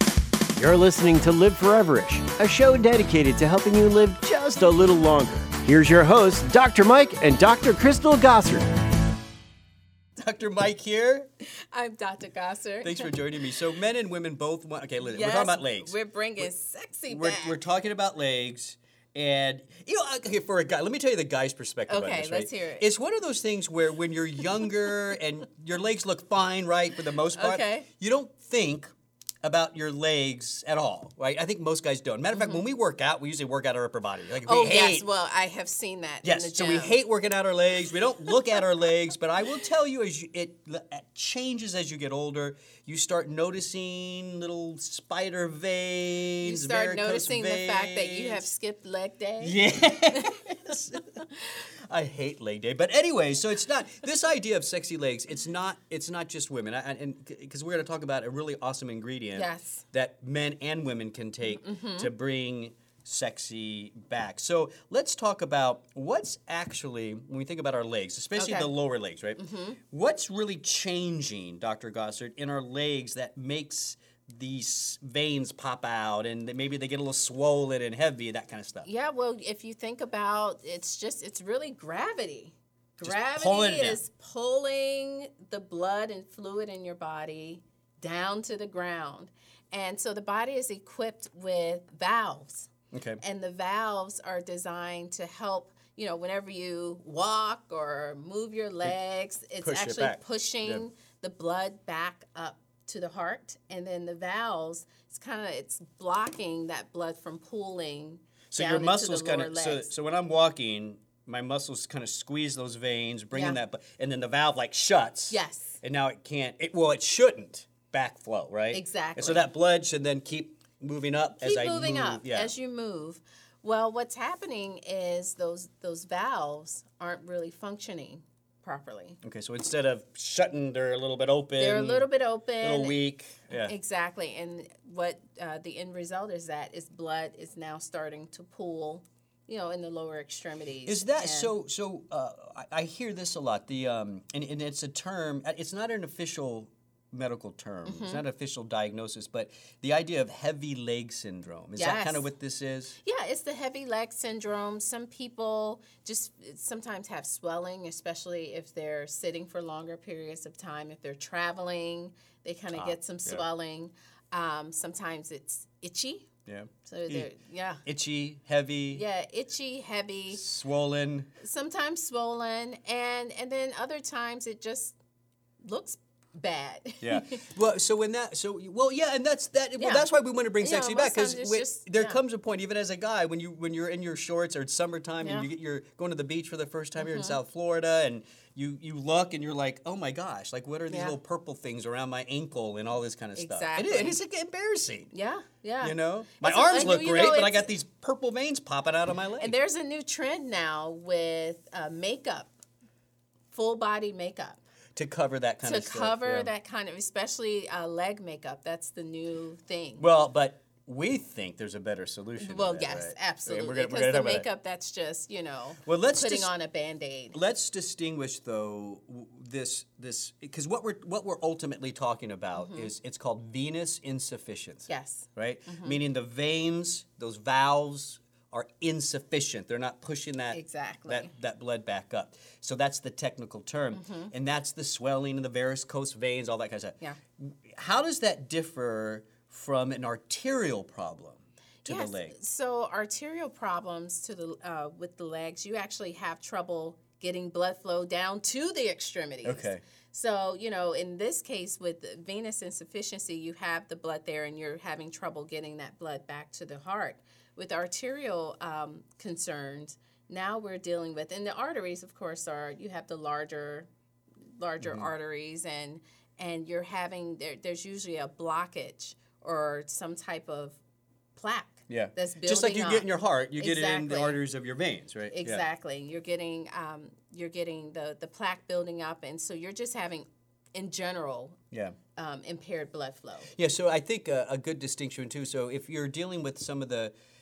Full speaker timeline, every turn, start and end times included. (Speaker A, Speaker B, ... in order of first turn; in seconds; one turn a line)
Speaker A: 0.5-8.7
Speaker B: 10.2-11.3
Speaker C: 11.7-13.6
Speaker B: 12.8-16.5
Speaker C: 15.0-17.6
Speaker B: 17.1-28.9
Speaker C: 21.9-22.9
Speaker C: 27.4-27.9
Speaker B: 29.4-35.1
Speaker C: 32.3-32.6
Speaker C: 34.4-37.0
Speaker B: 36.2-48.5
Speaker C: 46.4-49.6
Speaker B: 49.4-51.2
Speaker C: 50.1-50.4
Speaker B: 51.9-78.9
Speaker C: 59.3-59.8
Speaker C: 61.5-62.1
Speaker C: 68.3-68.7
Speaker C: 69.4-69.8
Speaker C: 78.8-92.7
Speaker B: 83.0-84.0
Speaker B: 92.9-93.2
Speaker C: 93.2-109.9
Speaker B: 99.6-100.8
Speaker B: 108.5-122.5
Speaker C: 113.3-113.6
Speaker C: 115.3-115.8
Speaker C: 118.7-119.5
Speaker C: 121.4-129.2
Speaker B: 129.2-132.1
Speaker C: 131.6-133.0
Speaker B: 132.6-133.7
Speaker C: 133.6-141.5
Speaker B: 140.8-153.0
Speaker C: 147.8-148.2
Speaker C: 151.8-152.2
Speaker C: 153.0-166.3
Speaker B: 162.7-163.4
Speaker B: 166.5-167.3
Speaker C: 166.9-167.8
Speaker B: 167.8-169.0
Speaker C: 168.9-170.4
Speaker B: 170.3-171.3
Speaker C: 171.4-174.9
Speaker C: 175.6-177.4
Speaker B: 177.0-195.1
Speaker C: 179.8-182.2
Speaker C: 185.2-185.5
Speaker C: 187.0-187.4
Speaker C: 190.9-191.2
Speaker C: 193.4-194.2
Speaker C: 195.1-197.7
Speaker B: 195.8-199.5
Speaker C: 199.4-202.5
Speaker C: 203.5-204.6
Speaker B: 204.9-206.5
Speaker C: 205.6-210.0
Speaker B: 210.0-214.5
Speaker C: 212.4-217.4
Speaker B: 215.8-216.5
Speaker B: 217.3-242.3
Speaker C: 222.6-222.9
Speaker C: 224.9-226.0
Speaker C: 230.5-231.3
Speaker C: 233.9-234.3
Speaker C: 241.8-263.9
Speaker B: 249.4-249.8
Speaker C: 264.6-270.8
Speaker B: 264.8-265.1
Speaker C: 271.4-274.4
Speaker B: 271.9-275.6
Speaker C: 275.3-281.6
Speaker B: 281.7-282.0
Speaker C: 282.1-283.5
Speaker B: 283.4-287.1